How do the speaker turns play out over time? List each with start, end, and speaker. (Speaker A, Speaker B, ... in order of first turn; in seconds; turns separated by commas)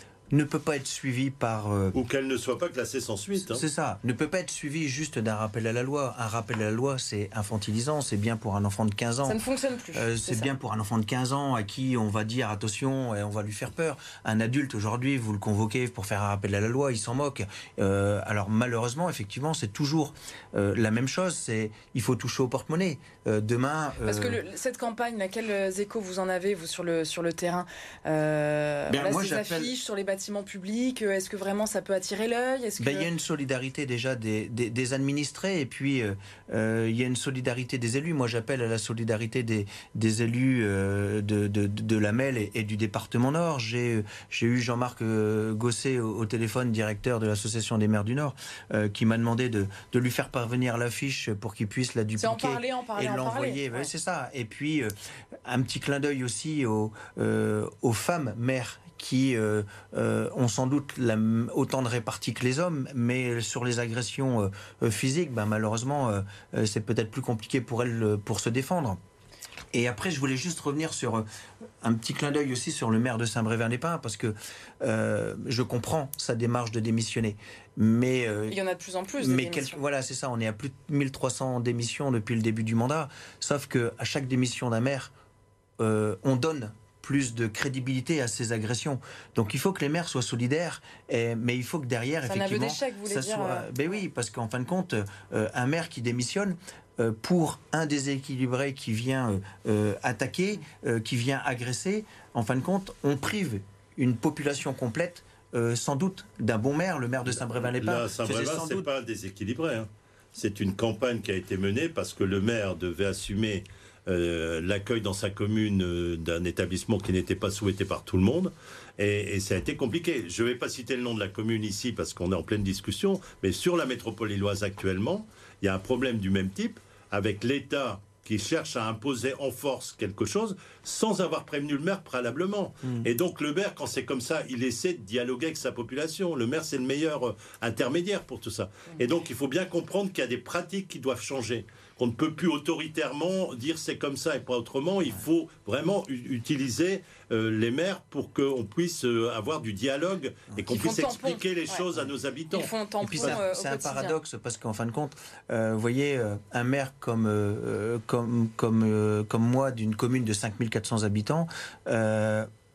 Speaker A: 0.3-1.9, Speaker B: 1.9-3.6, Speaker A: 3.5-9.4, Speaker C: 9.2-10.5, Speaker A: 9.9-24.4, Speaker C: 24.0-33.1, Speaker A: 28.9-29.7, Speaker A: 32.8-54.9, Speaker C: 52.2-53.9, Speaker A: 55.5-69.0, Speaker A: 69.7-71.2, Speaker A: 71.8-78.5, Speaker C: 78.5-79.8, Speaker A: 79.2-85.1, Speaker A: 85.8-108.9, Speaker C: 92.2-93.7, Speaker B: 107.7-153.4, Speaker C: 150.7-151.8, Speaker C: 152.5-154.2, Speaker A: 153.0-162.5